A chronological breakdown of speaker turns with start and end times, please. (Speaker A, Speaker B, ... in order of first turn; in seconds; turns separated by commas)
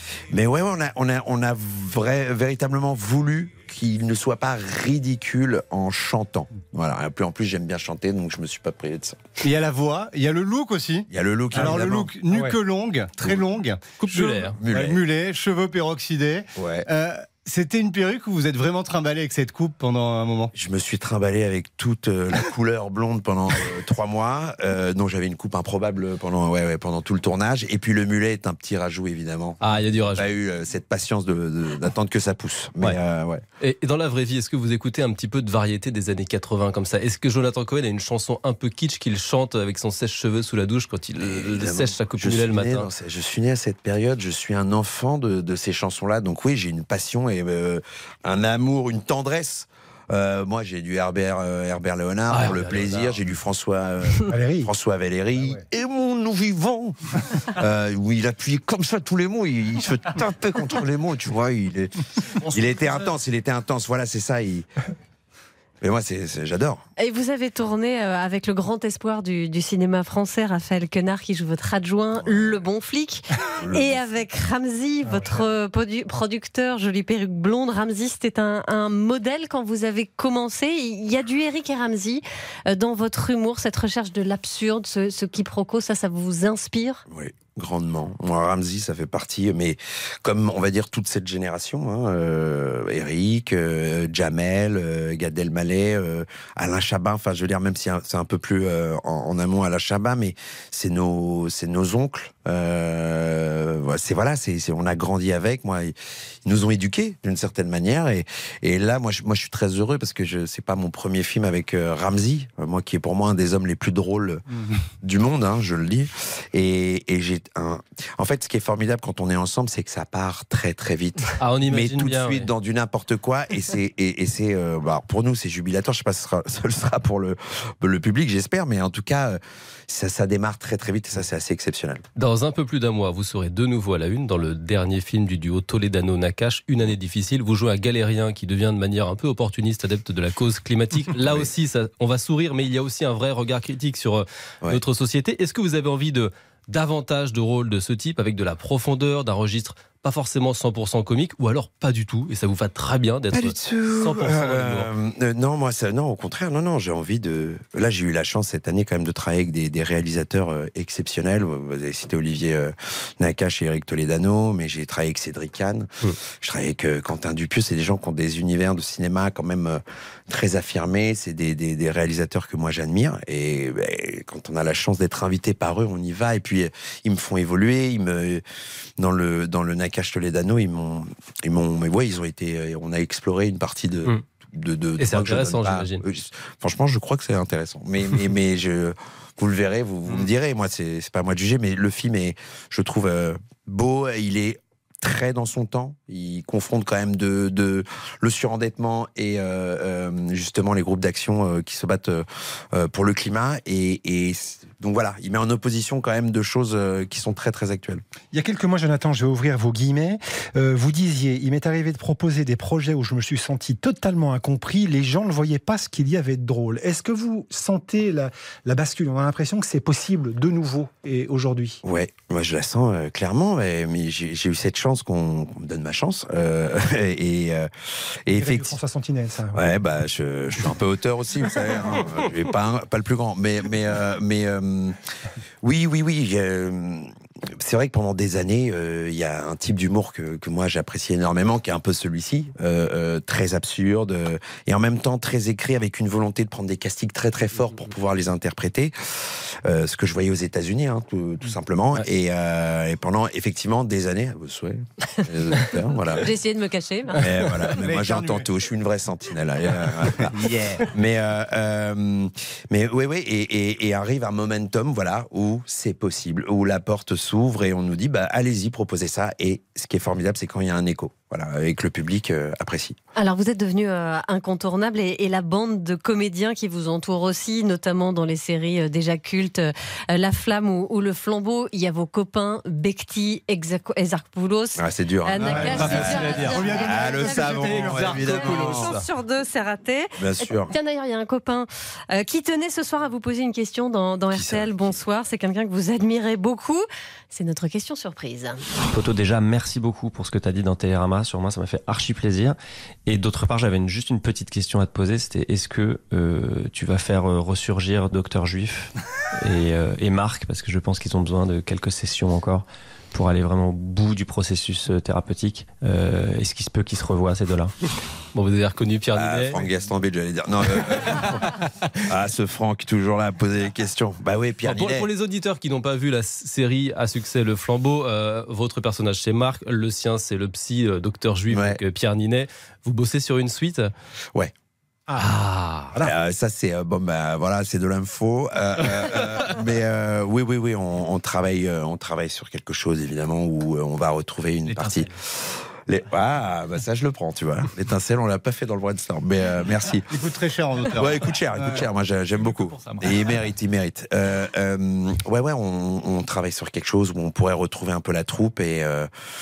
Speaker A: 0.3-9.2, Speaker B: 9.4-20.5, Speaker A: 11.1-12.1, Speaker C: 12.3-12.6, Speaker D: 14.0-14.6, Speaker A: 14.5-15.0, Speaker A: 16.6-16.9, Speaker A: 20.6-33.4, Speaker D: 29.6-30.3, Speaker D: 33.6-42.9, Speaker A: 41.2-64.7, Speaker D: 52.3-53.2, Speaker C: 54.3-54.7, Speaker A: 65.8-66.8, Speaker E: 67.0-87.0, Speaker A: 72.2-72.6, Speaker A: 73.6-74.3, Speaker A: 87.1-106.0, Speaker A: 106.5-114.4, Speaker A: 115.0-132.1, Speaker D: 121.4-122.5, Speaker D: 132.2-154.9, Speaker A: 141.2-141.5, Speaker A: 153.3-165.9, Speaker A: 166.4-178.4, Speaker A: 179.0-208.0, Speaker D: 185.0-186.0, Speaker C: 208.3-221.8, Speaker A: 221.8-228.8, Speaker C: 228.3-229.7, Speaker A: 229.5-235.0, Speaker A: 235.6-256.3, Speaker E: 256.1-257.2, Speaker A: 257.2-273.0, Speaker B: 257.7-258.4, Speaker B: 260.4-260.9, Speaker E: 273.2-298.6, Speaker A: 284.8-289.1, Speaker B: 285.4-288.8, Speaker D: 286.3-286.8, Speaker D: 287.9-288.9, Speaker A: 290.2-290.7, Speaker A: 294.3-295.0, Speaker F: 298.9-317.7, Speaker D: 318.3-319.6, Speaker A: 319.1-325.1, Speaker D: 324.6-333.9, Speaker A: 331.5-331.8, Speaker D: 335.2-336.0, Speaker A: 336.0-345.1, Speaker A: 345.9-350.1, Speaker B: 350.1-351.9, Speaker A: 350.9-359.1, Speaker B: 352.4-353.2